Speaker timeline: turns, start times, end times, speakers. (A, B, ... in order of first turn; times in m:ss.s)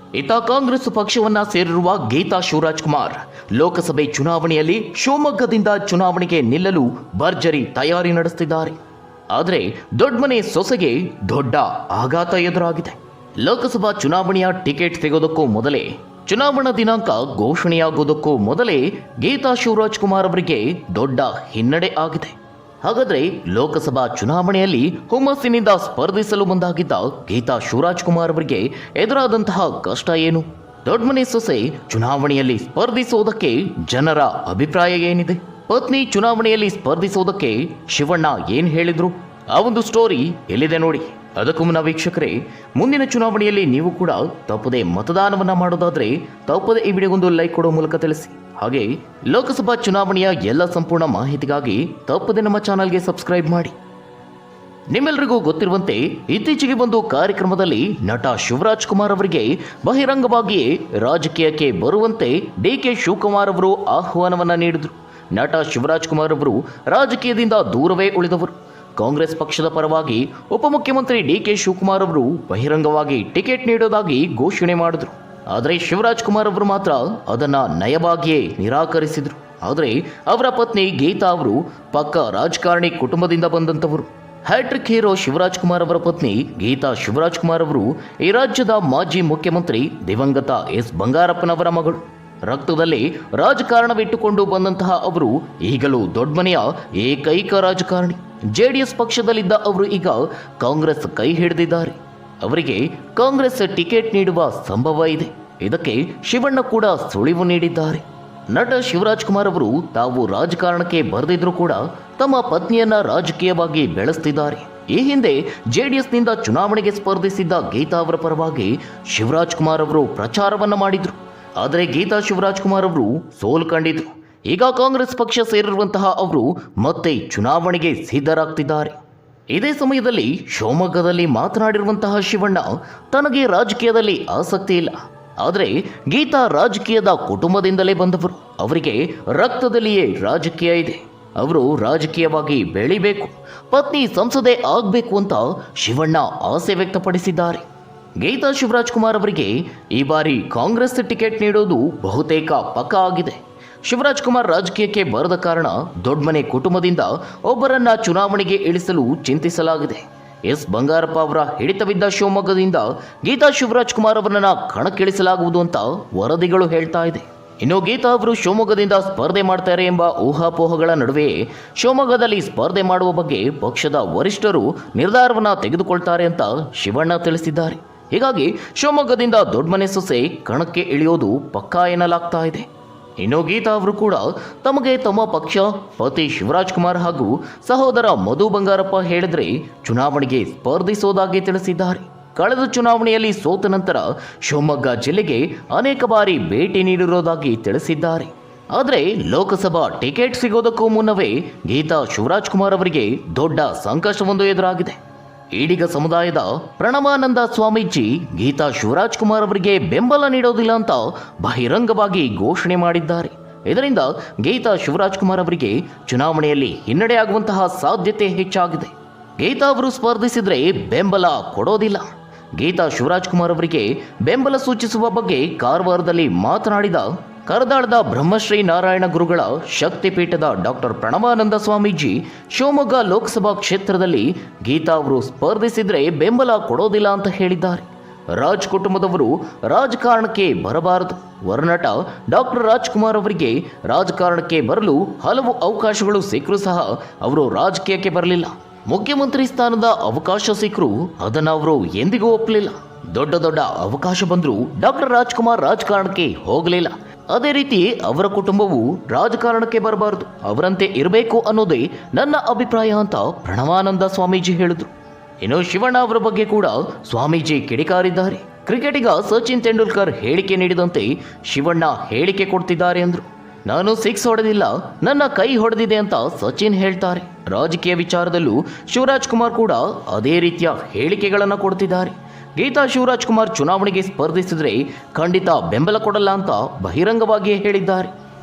0:00.1-0:08.8 A
0:09.3-0:53.7 A
0:54.9-2:09.0 A
2:09.5-2:27.6 A
2:28.2-3:02.7 A
3:03.2-3:25.0 A
3:25.5-4:48.1 A